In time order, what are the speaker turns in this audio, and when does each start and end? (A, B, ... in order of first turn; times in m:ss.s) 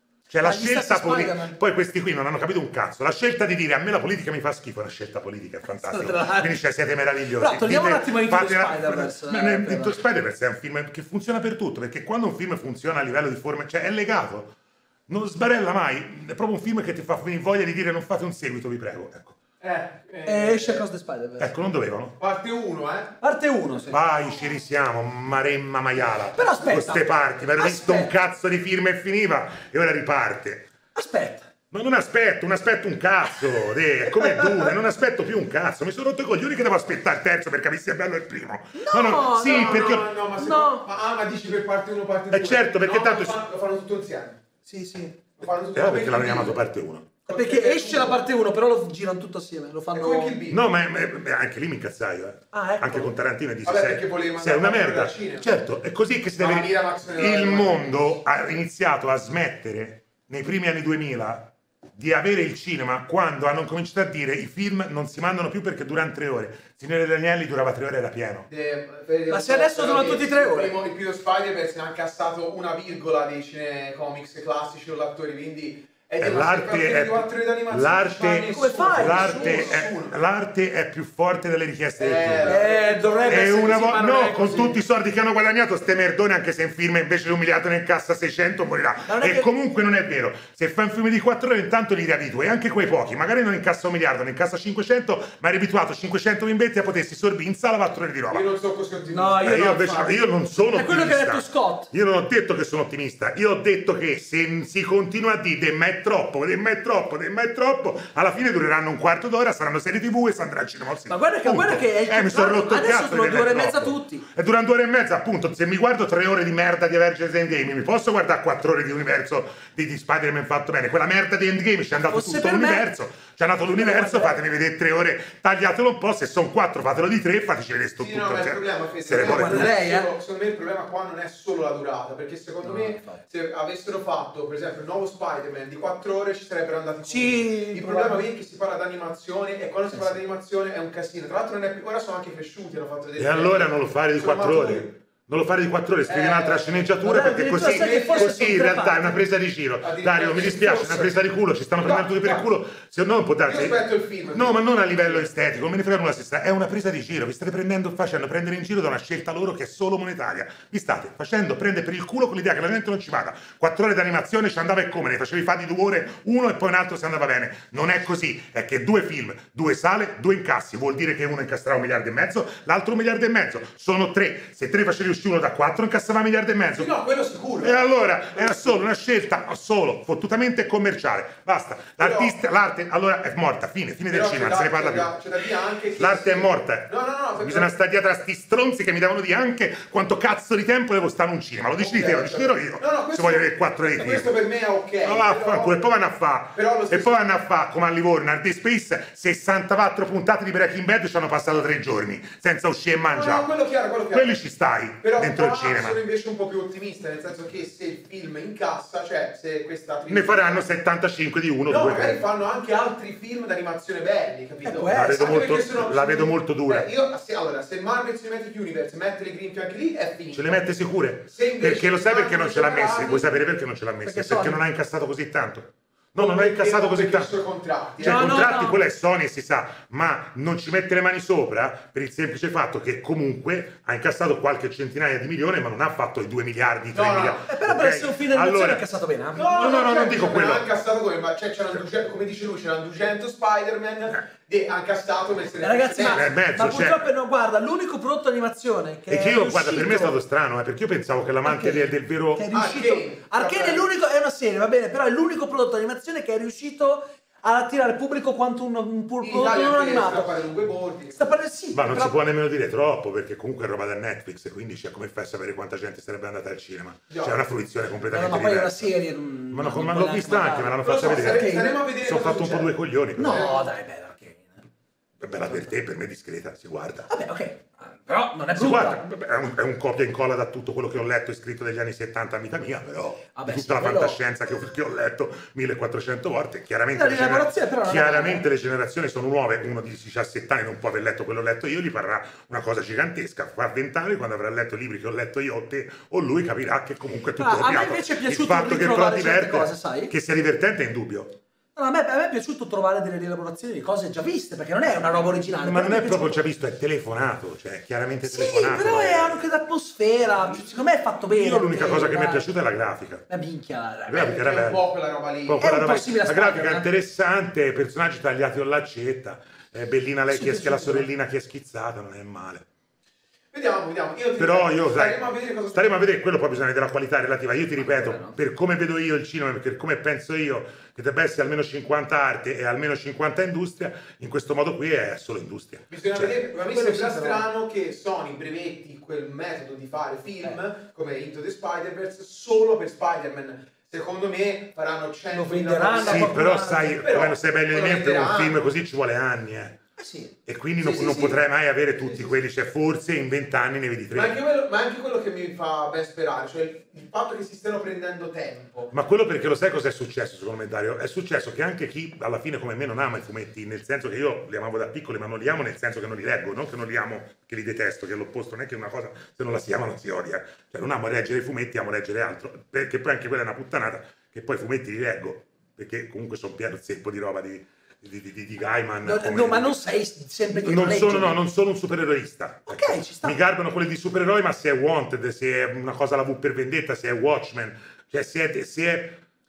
0:00.3-0:14.5 A
0:00.4-0:01.6 B
0:05.7-0:06.6 B
0:07.4-0:10.0 B
0:15.1-0:19.4 A
0:19.6-0:20.8 C
0:20.2-0:21.5 B
0:21.4-0:22.2 A
0:22.2-0:23.1 C
0:23.2-0:24.0 B
0:23.9-0:30.7 A
0:26.3-0:28.1 B
0:30.9-0:31.5 B
0:31.7-0:40.1 A
0:34.1-0:34.7 B
0:38.7-0:40.8 B
0:39.2-0:44.4 C
0:42.3-0:43.4 A
0:44.6-0:45.3 B
0:45.4-0:46.6 C
0:45.7-0:47.2 A
0:47.3-0:48.2 C
0:47.3-0:50.4 B
0:49.9-0:50.6 C
0:50.5-1:08.5 A
0:52.5-0:53.1 B
0:53.6-0:55.5 C
0:56.4-0:58.1 C
1:08.5-1:20.1 C
1:09.3-1:10.7 B
1:16.2-1:22.7 A
1:18.5-1:19.8 B
1:22.0-1:23.8 C
1:22.4-1:24.8 B
1:23.3-1:38.5 A
1:29.0-1:29.5 B
1:38.3-1:40.1 C
1:39.1-1:40.1 B
1:39.4-2:09.7 A
1:40.7-1:41.9 B
1:51.1-1:54.3 B
2:02.1-2:02.9 B
2:03.7-2:04.3 B
2:08.0-2:24.9 C
2:09.2-2:10.1 B
2:12.6-2:13.2 B
2:17.0-2:18.2 B
2:19.9-2:20.2 B
2:23.2-2:56.9 A
2:26.1-2:27.0 C
2:27.0-2:29.2 B
2:27.6-2:28.6 C
2:29.8-2:31.1 C
2:31.8-2:32.4 C
2:33.4-2:35.2 C
2:56.8-2:57.8 B
2:57.6-3:05.1 A
3:02.0-3:02.4 C
3:04.1-3:07.7 C
3:06.0-3:14.4 A
3:11.8-3:15.8 C
3:15.0-3:23.5 A
3:16.5-3:17.3 C
3:23.0-3:24.4 C
3:24.1-3:26.0 A
3:25.0-3:30.7 C
3:30.1-3:32.2 A
3:31.7-3:40.7 C
3:34.6-3:35.4 B
3:34.9-3:36.9 A
3:40.3-3:47.3 A
3:41.3-3:43.3 C
3:44.0-3:44.6 B
3:46.1-3:48.4 C
3:48.0-3:58.8 A
3:48.0-3:48.8 B
3:56.9-3:57.4 C
3:57.5-3:59.6 B
3:59.3-4:06.3 C
3:59.4-4:00.7 A
4:05.6-4:10.2 B
4:06.1-4:07.1 A
4:09.1-4:12.5 A
4:11.4-4:20.3 B
4:12.5-4:13.8 C
4:19.2-4:21.3 C
4:21.1-4:22.2 B
4:21.7-4:28.9 A
4:27.1-4:27.4 C
4:28.1-4:31.8 B
4:29.5-4:31.5 A
4:30.8-4:32.7 C
4:32.0-4:33.5 A
4:33.2-4:34.6 B
4:33.2-4:33.7 C
4:35.2-4:37.1 A
4:37.1-4:39.0 B
4:38.5-5:01.4 A
4:43.3-4:44.2 B
4:46.9-4:48.4 B
4:57.4-5:00.1 B
5:01.8-5:06.4 B
5:05.5-5:09.4 A
5:08.2-5:12.4 B
5:11.3-5:13.2 A
5:13.3-5:14.2 B
5:14.1-5:14.8 A
5:14.1-5:15.6 C
5:15.4-5:22.6 A
5:15.6-5:16.9 B
5:20.3-5:21.1 B
5:23.5-5:26.1 C
5:24.4-5:25.2 A
5:25.7-5:36.4 A
5:27.8-5:28.4 B
5:35.9-5:48.6 C
5:36.6-5:37.4 B
5:45.3-5:46.9 B
5:46.0-5:49.8 A
5:50.0-5:51.3 B
5:50.4-5:54.4 A
5:50.8-5:51.4 C
5:54.1-5:58.9 C
5:58.9-6:19.8 A
6:19.0-6:21.4 B
6:20.6-6:29.2 A
6:22.7-6:23.4 B